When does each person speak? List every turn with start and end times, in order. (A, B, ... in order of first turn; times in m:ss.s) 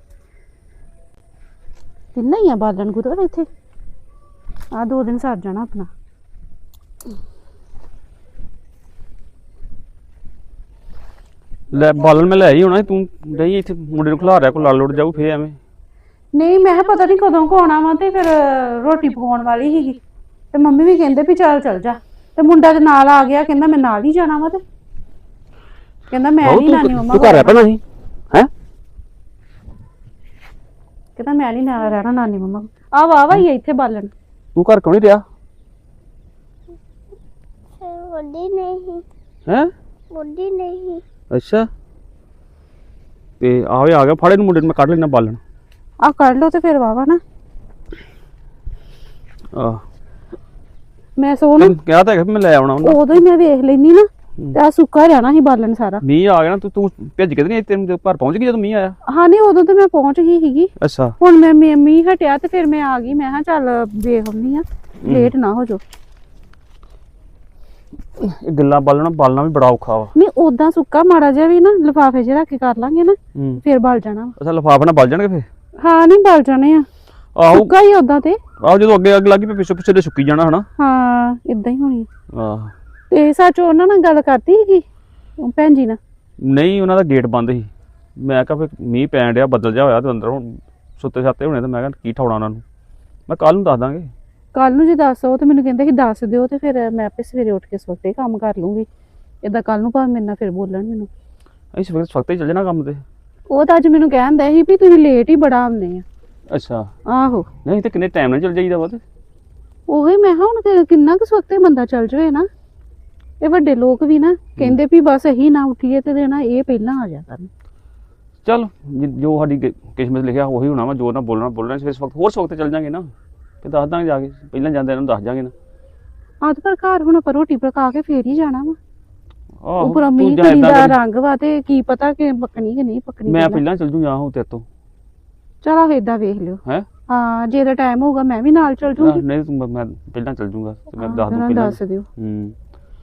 0:02.1-0:03.5 A
0:04.7-0:05.9 A
0:11.7-0:15.6 B
0:16.3-0:20.0 A
0:20.5-0:24.6 A
0:26.1-0:27.6 A
0:26.4-0:28.5 B
0:31.2-0:34.1 A
0:34.5-0:35.2 B
0:37.8-0:39.0 C
0:39.4-0:39.7 B
0:40.1-0:41.0 C
0:41.3-0:41.7 B
0:43.4-0:45.4 B
0:46.0-0:47.2 A
0:49.5-0:49.8 B
0:51.2-0:51.7 A
0:51.6-0:53.2 B
0:52.8-0:56.0 A
0:56.0-0:59.0 B
0:59.0-1:05.8 A
1:00.8-1:01.1 B
1:05.0-1:05.3 B
1:08.2-1:10.1 B
1:10.1-1:14.3 A
1:13.3-1:13.6 B
1:14.4-1:15.5 B
1:15.8-1:16.9 A
1:17.3-1:17.7 B
1:17.5-1:18.4 A
1:18.6-1:20.7 B
1:20.8-1:22.1 A
1:22.3-1:22.7 B
1:23.1-1:24.8 A
1:25.4-1:26.0 A
1:26.4-1:32.6 B
1:33.3-1:34.1 B
1:34.5-1:38.9 A
1:39.4-1:41.1 A
1:41.7-1:43.0 B
1:43.5-1:46.0 A
1:46.5-1:46.9 B
1:47.1-1:47.5 A
1:47.6-1:49.0 B
1:49.9-1:52.5 A
1:53.4-1:57.5 A
1:58.4-2:03.1 B
2:03.6-2:05.5 B
2:06.4-2:08.8 A
2:09.6-2:11.0 B
2:09.8-2:13.6 A
2:13.2-2:14.6 B
2:15.6-2:19.2 A
2:19.0-2:22.6 B
2:21.0-2:22.1 A